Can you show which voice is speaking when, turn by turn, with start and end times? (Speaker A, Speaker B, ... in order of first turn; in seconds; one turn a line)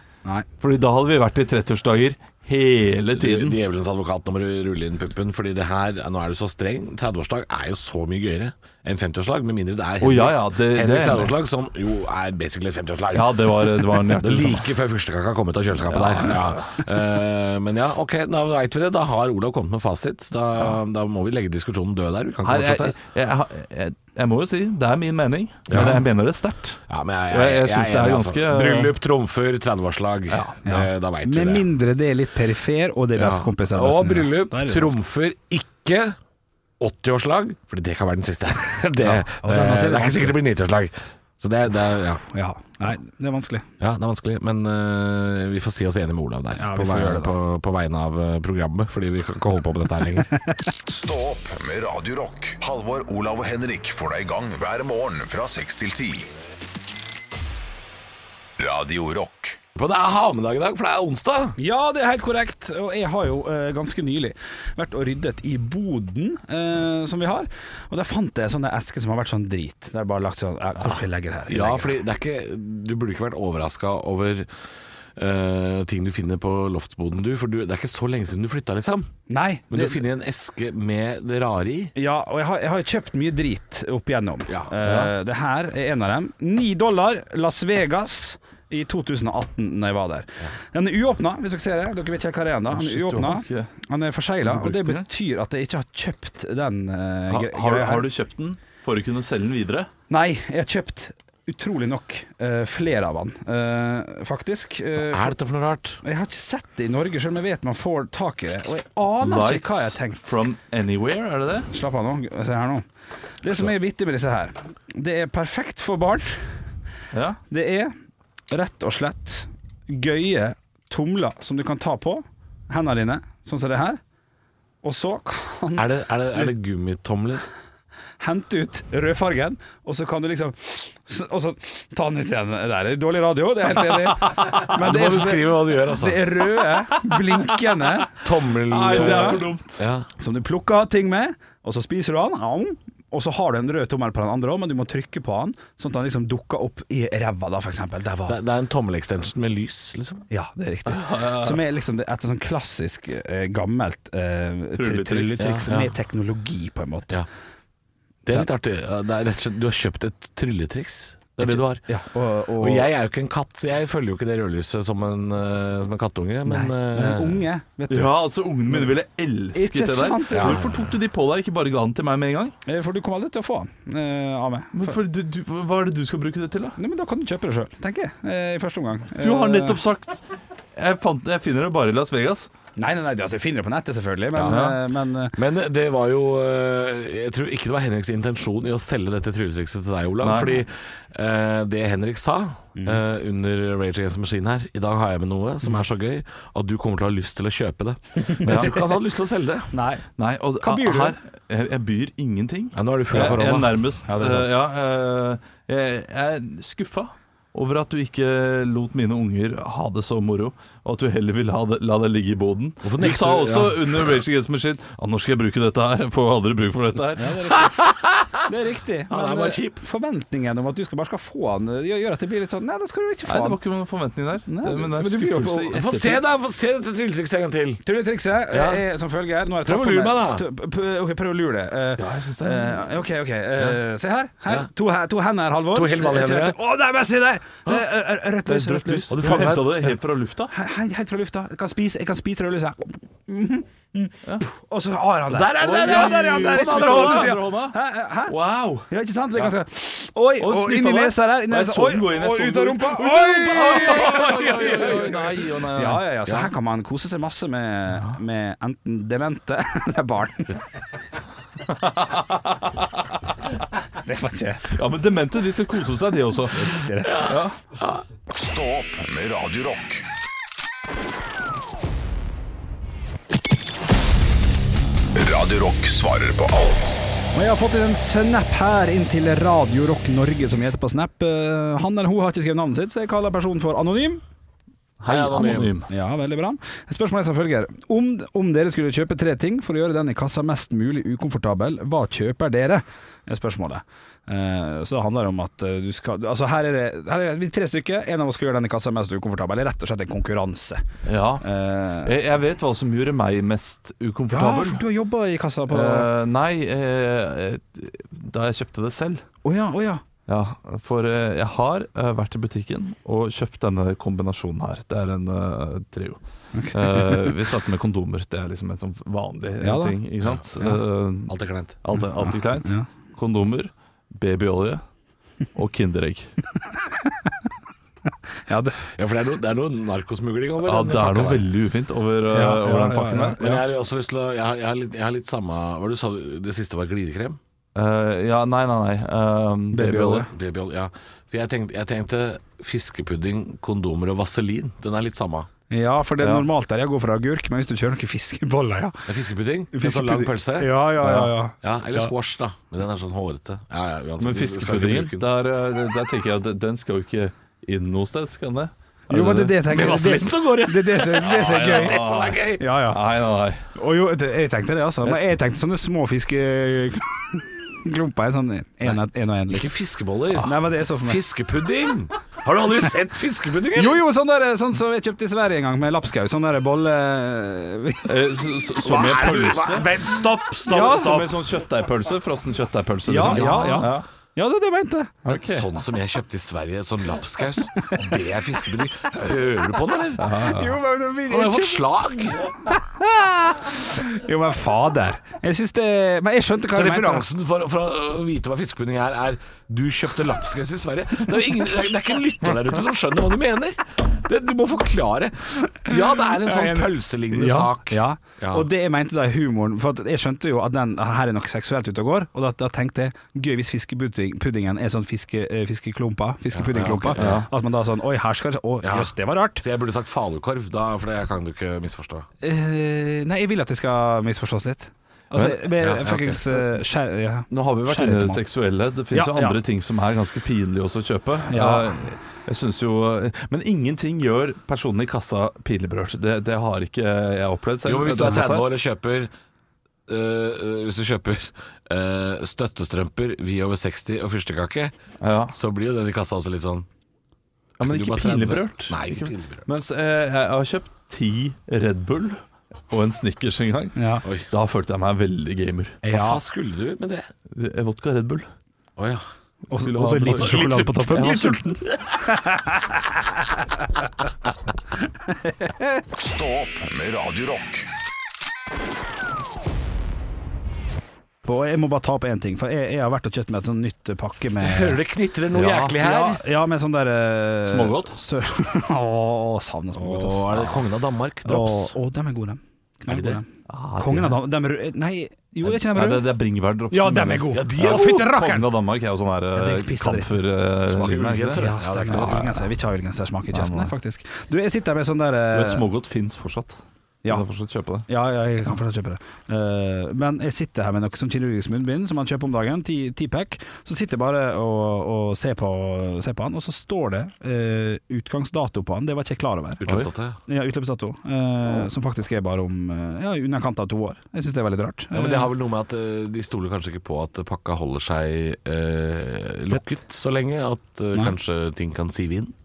Speaker A: 0.6-3.6
Speaker B: 3.1-22.9
Speaker A: 10.0-11.4
Speaker A: 13.1-14.7
Speaker A: 15.9-16.7
Speaker A: 22.4-28.9
Speaker B: 25.7-26.0
Speaker C: 25.7-26.0
Speaker B: 26.9-31.6
Speaker A: 30.3-30.6
Speaker C: 30.6-35.0
Speaker B: 33.1-36.2
Speaker B: 36.8-42.2
Speaker C: 39.0-40.4
Speaker C: 42.3-43.7
Speaker B: 43.8-50.3
Speaker C: 46.5-47.3
Speaker C: 50.4-50.6
Speaker D: 50.9-56.3
Speaker D: 58.6-59.6
Speaker B: 59.7-61.6
Speaker C: 61.6-72.0
Speaker B: 71.5-74.5
Speaker B: 75.2-79.1
Speaker C: 79.3-80.0
Speaker B: 79.7-81.9
Speaker C: 81.9-98.0
Speaker B: 84.5-84.7
Speaker A: 84.8-85.1
Speaker A: 92.7-93.7
Speaker A: 94.4-95.0
Speaker A: 97.3-99.9
Speaker C: 100.1-105.3
Speaker B: 105.1-106.0
Speaker C: 106.0-110.2
Speaker A: 109.2-111.7
Speaker C: 111.7-112.8
Speaker C: 113.4-116.6
Speaker A: 117.1-117.4
Speaker C: 117.5-117.9
Speaker C: 118.5-124.0
Speaker C: 124.8-126.5
Speaker B: 125.8-127.4
Speaker C: 128.2-138.2
Speaker A: 134.1-134.7
Speaker B: 134.7-136.3
Speaker B: 138.2-140.1
Speaker A: 138.7-139.8
Speaker C: 138.9-139.4
Speaker C: 140.2-148.4
Speaker B: 148.2-150.2
Speaker C: 150.3-157.2
Speaker A: 150.9-151.6
Speaker A: 154.8-155.5
Speaker B: 155.4-155.9
Speaker B: 158.2-161.8
Speaker C: 161.4-162.9
Speaker B: 162.6-167.4
Speaker C: 166.4-168.2
Speaker A: 167.9-172.6
Speaker C: 168.7-168.9
Speaker C: 169.5-170.6
Speaker B: 170.3-170.9
Speaker C: 172.7-175.0
Speaker A: 174.7-176.8
Speaker C: 176.8-179.8
Speaker A: 179.2-180.2
Speaker A: 180.8-182.5
Speaker C: 182.8-185.4
Speaker A: 184.4-184.8
Speaker B: 185.3-199.7
Speaker A: 190.2-190.6
Speaker C: 192.8-193.0
Speaker C: 198.2-198.8
Speaker A: 198.4-198.7
Speaker C: 199.7-200.1
Speaker A: 200.2-217.4
Speaker C: 200.6-201.2
Speaker B: 202.7-203.7
Speaker C: 203.1-204.5
Speaker B: 212.8-214.2
Speaker C: 217.2-217.7
Speaker B: 217.4-218.4
Speaker C: 218.4-223.6
Speaker B: 219.1-219.8
Speaker A: 223.3-226.2
Speaker C: 224.5-225.8
Speaker B: 225.7-227.8
Speaker C: 227.8-239.6
Speaker B: 228.5-228.8
Speaker B: 229.6-230.4
Speaker A: 232.0-232.8
Speaker B: 235.7-236.6
Speaker A: 238.4-240.5
Speaker B: 239.1-239.8
Speaker C: 240.5-260.6
Speaker B: 245.3-247.3
Speaker A: 245.6-249.5
Speaker A: 250.4-256.0
Speaker B: 253.4-255.3
Speaker A: 261.6-263.2
Speaker C: 264.0-264.7
Speaker A: 264.7-267.6
Speaker C: 266.5-267.3
Speaker B: 267.1-268.0
Speaker D: 268.3-270.0
Speaker D: 275.1-277.2
Speaker C: 277.3-284.2
Speaker A: 285.0-285.9
Speaker B: 285.0-285.7
Speaker C: 285.9-300.8
Speaker A: 301.1-301.5
Speaker C: 301.4-302.1
Speaker A: 302.0-304.8
Speaker C: 304.3-306.1
Speaker A: 305.7-309.2
Speaker C: 309.4-310.0
Speaker A: 310.3-316.2
Speaker C: 316.5-317.3
Speaker A: 316.7-324.8
Speaker C: 319.6-319.9
Speaker B: 321.3-321.7
Speaker C: 321.9-322.9
Speaker A: 325.5-326.3
Speaker C: 327.0-327.3
Speaker C: 328.5-328.8
Speaker B: 328.9-331.4
Speaker A: 330.6-333.4
Speaker C: 332.3-333.6
Speaker B: 333.4-337.4
Speaker A: 337.7-340.3
Speaker C: 339.7-340.3
Speaker B: 340.3-345.5
Speaker C: 345.7-349.1
Speaker A: 346.2-346.5
Speaker B: 349.1-350.7
Speaker C: 349.7-352.1
Speaker A: 351.0-351.3
Speaker B: 351.6-355.3
Speaker A: 354.2-359.6
Speaker C: 359.1-362.0
Speaker B: 359.6-362.6
Speaker A: 361.2-363.6
Speaker C: 362.6-363.0
Speaker C: 363.7-369.7
Speaker B: 368.8-374.0
Speaker C: 370.4-371.2
Speaker C: 373.7-378.1
Speaker A: 378.0-379.9
Speaker B: 378.8-381.3
Speaker A: 380.6-384.1
Speaker C: 380.7-381.1
Speaker C: 383.1-385.2
Speaker B: 383.2-383.9
Speaker A: 385.2-385.7
Speaker B: 385.3-390.4
Speaker A: 390.2-390.8
Speaker C: 390.3-397.2
Speaker B: 391.3-392.4
Speaker B: 396.7-408.7
Speaker C: 406.3-419.6
Speaker B: 416.5-417.5
Speaker A: 417.2-417.5
Speaker B: 418.8-422.3
Speaker C: 422.4-428.4
Speaker B: 425.8-426.4
Speaker A: 427.5-438.7
Speaker C: 429.1-429.6
Speaker C: 431.5-431.9
Speaker B: 437.8-439.3
Speaker B: 440.1-444.9
Speaker A: 445.2-445.5
Speaker B: 445.5-446.9
Speaker A: 447.8-456.0
Speaker B: 447.8-449.7
Speaker C: 453.9-454.2
Speaker C: 456.0-456.4
Speaker B: 456.1-457.3
Speaker A: 457.5-458.5
Speaker B: 459.0-459.2
Speaker A: 459.7-462.3
Speaker C: 459.7-463.7
Speaker B: 460.2-461.2
Speaker C: 465.3-465.9
Speaker D: 466.1-467.9
Speaker C: 471.4-475.0
Speaker B: 474.6-476.4
Speaker A: 475.5-475.8
Speaker C: 475.9-480.8
Speaker A: 477.7-478.1
Speaker B: 479.9-481.9
Speaker C: 481.4-483.5
Speaker B: 483.1-483.4
Speaker A: 483.7-484.4
Speaker C: 484.0-486.3
Speaker A: 485.6-492.6
Speaker C: 486.9-488.7
Speaker B: 487.5-488.3
Speaker C: 489.5-490.4
Speaker B: 490.9-492.5
Speaker C: 491.6-495.8
Speaker A: 493.5-493.9
Speaker A: 495.5-498.1
Speaker C: 498.1-509.8
Speaker B: 509.8-510.4
Speaker C: 510.5-515.5
Speaker B: 515.1-522.5